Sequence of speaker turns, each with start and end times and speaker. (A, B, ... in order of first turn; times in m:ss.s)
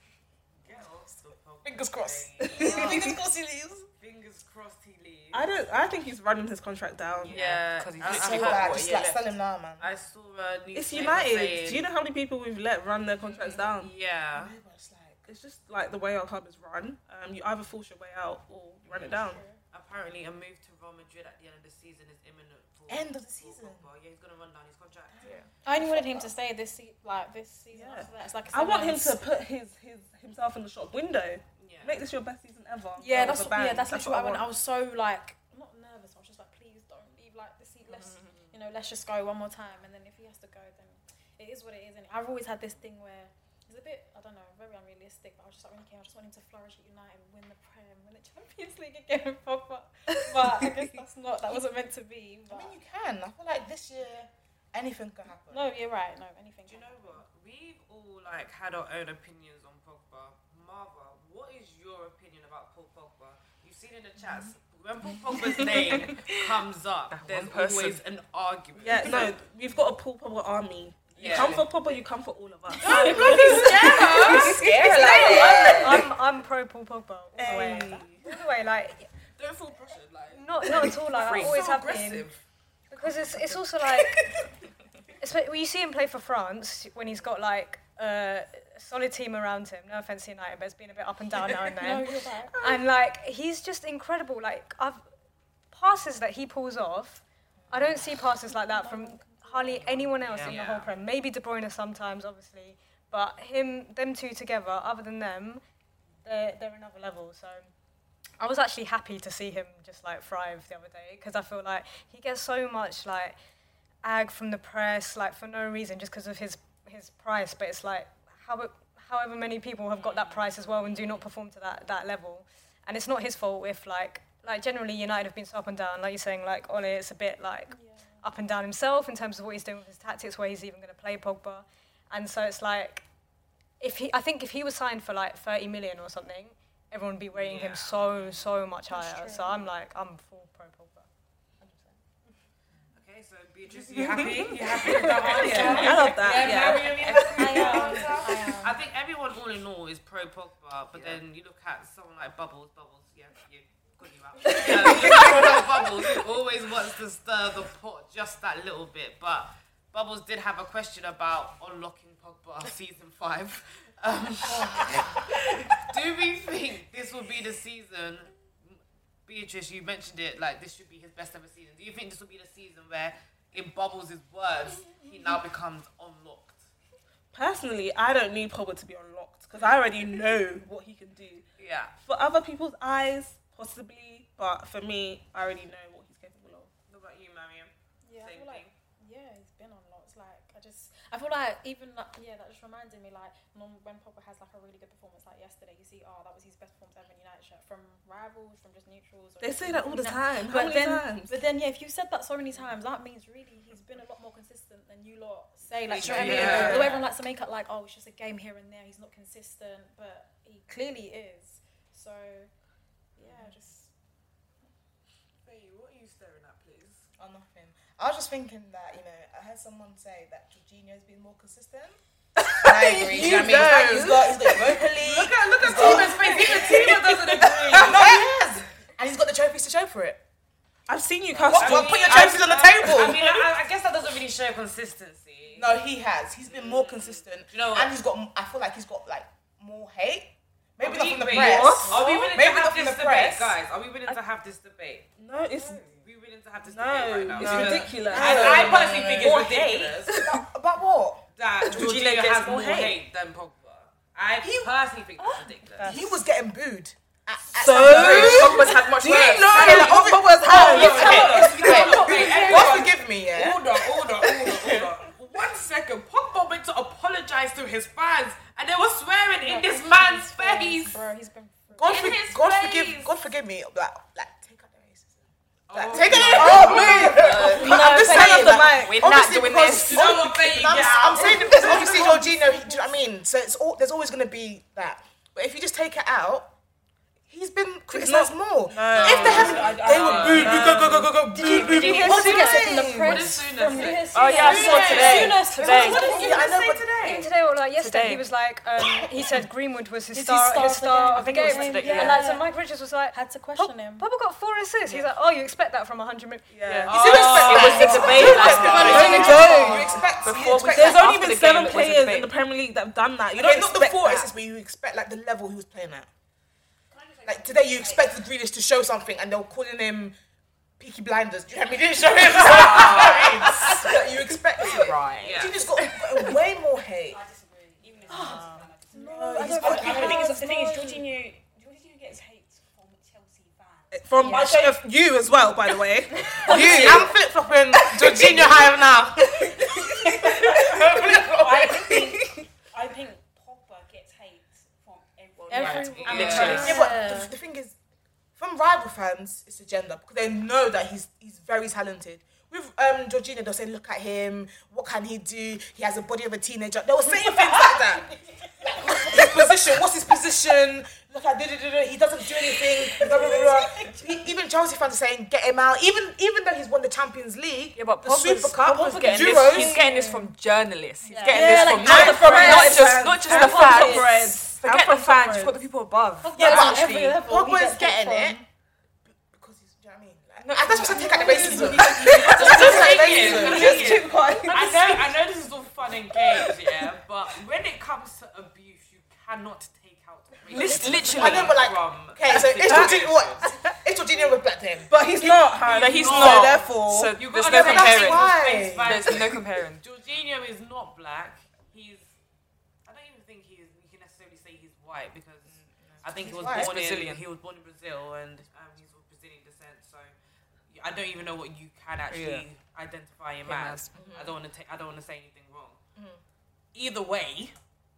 0:00.6-0:03.2 A
0:01.6-0:03.9 B
0:02.6-0:03.0 C
0:04.0-0:05.5 A
0:05.3-0:07.4 C
0:07.2-0:09.1 D
0:07.2-0:09.2 A
0:08.0-0:09.9 B
0:09.8-0:11.9 A
0:10.7-0:13.9 C
0:13.3-0:14.5 A
0:14.3-0:15.2 B
0:15.2-0:19.4 C
0:18.9-0:19.6 E
0:19.7-0:25.4 A
0:22.9-0:23.9 B
0:25.1-0:26.3 B
0:25.6-0:29.3 E
0:27.7-0:34.5 C
0:31.6-0:32.0 A
0:33.0-0:52.8 E
0:52.5-0:55.7 B
0:55.5-0:57.2 E
0:56.6-1:09.4 A
1:05.6-1:06.4 D
1:07.1-1:08.0 D
1:08.8-1:16.0 C
1:11.1-1:11.7 A
1:12.8-1:16.0 A
1:13.2-1:14.4 E
1:15.0-1:15.6 E
1:15.6-1:19.1 F
1:17.4-1:18.2 C
1:19.4-1:22.4 A
1:20.3-1:22.3 F
1:22.9-1:24.2 F
1:25.2-1:35.0 F
1:31.8-1:32.7 E
1:35.7-1:45.6 F
1:37.6-1:38.0 B
1:38.4-1:40.0 E
1:40.2-1:40.9 A
1:46.2-1:47.7 F
1:48.4-1:53.4 F
1:54.0-2:13.0 F
2:07.7-2:08.2 E
2:13.8-2:21.1 F
2:17.3-2:18.3 A
2:18.9-2:19.6 E
2:21.6-2:21.9 B
2:23.0-2:56.7 A
2:23.9-2:28.1 C
2:25.5-2:28.8 E
2:34.5-2:35.5 C
2:35.2-2:35.5 B
2:57.3-3:01.4 C
3:01.6-3:01.9 A
3:02.0-3:06.7 C
3:06.9-3:08.7 A
3:08.0-3:32.5 E
3:19.4-3:21.4 C
3:25.8-3:27.0 A
3:26.1-3:27.0 C
3:33.2-3:33.9 E
3:35.4-3:37.1 A
3:37.2-3:42.0 B
3:42.4-3:44.8 C
3:42.6-3:47.0 B
3:43.3-3:43.6 A
3:45.0-3:48.1 A
3:45.6-3:48.0 C
3:47.7-3:50.2 B
3:50.9-3:53.4 C
3:51.5-3:53.3 B
3:51.5-3:55.7 A
3:55.5-4:03.6 B
3:56.4-3:57.9 A
4:00.8-4:05.1 A
4:01.2-4:02.4 C
4:05.2-4:06.0 C
4:05.9-4:10.1 A
4:06.6-4:09.3 C
4:07.4-4:11.2 B
4:08.2-4:08.5 D
4:11.4-4:16.0 A
4:11.7-4:12.9 D
4:14.4-4:14.7 B
4:15.8-4:23.8 B
4:17.5-4:21.5 C
4:17.8-4:31.0 A
4:17.8-4:19.8 D
4:20.8-4:22.8 E
4:29.4-4:32.1 E
4:31.8-4:46.5 B
4:31.8-4:33.1 A
4:35.7-4:37.9 A
4:36.2-4:39.1 C
4:36.3-4:40.3 D
4:39.7-4:42.2 A
4:41.4-4:41.7 D
4:42.4-4:42.7 E
4:47.3-4:53.3 B
4:47.9-4:51.2 C
4:48.9-4:50.7 A
4:49.0-4:50.7 G
4:51.3-4:56.8 E
4:51.3-4:52.8 F
4:51.6-4:55.5 A
4:54.0-4:56.2 D
4:54.5-4:57.3 B
4:54.9-4:55.4 C
4:56.1-5:06.5 F
4:57.8-4:58.3 D
5:00.1-5:04.1 E
5:01.2-5:02.3 D
5:06.5-5:07.0 C
5:06.6-5:12.3 D
5:06.9-5:10.5 A
5:06.9-5:11.2 B
5:07.6-5:14.3 C
5:13.3-5:16.1 B
5:16.9-5:18.2 G
5:17.2-5:20.2 B
5:20.8-5:27.2 B
5:22.2-5:23.8 A
5:22.4-5:26.0 D
5:24.7-5:25.6 A
5:27.1-5:34.7 G
5:28.0-5:31.0 E
5:28.1-5:28.5 D
5:29.0-5:30.3 B
5:29.3-5:30.1 C
5:33.9-5:37.1 C
5:34.2-5:34.7 E
5:36.1-5:37.0 E
5:36.4-5:42.2 B
5:38.0-5:38.4 C
5:41.1-5:46.8 G
5:45.5-5:46.8 D
5:45.5-5:47.3 E
5:45.5-5:46.7 A
5:46.4-5:47.8 B
5:48.4-6:09.9 B
6:03.0-6:03.6 E
6:07.8-6:17.2 D
6:09.3-6:09.6 C
6:09.5-6:10.3 E
6:11.1-6:14.3 E
6:11.2-6:15.6 C
6:11.8-6:12.2 B
6:16.2-6:18.4 E
6:16.3-6:18.4 B
6:19.1-6:24.0 B
6:20.4-6:23.7 D
6:21.0-6:25.2 C
6:22.2-6:33.4 A
6:26.2-6:26.7 C
6:30.5-6:31.7 D
6:31.1-6:34.9 B
6:32.6-6:33.7 D
6:34.9-6:37.2 C
6:35.6-6:42.1 A
6:35.6-6:39.8 D
6:37.3-6:39.2 B
6:42.8-6:50.1 A
6:45.9-6:46.7 B
6:46.4-6:47.2 D
6:50.7-6:55.8 A
6:52.1-6:52.5 D
6:53.4-6:54.1 D
6:53.9-6:54.4 B
6:56.0-6:56.2 B
6:56.7-6:57.5 A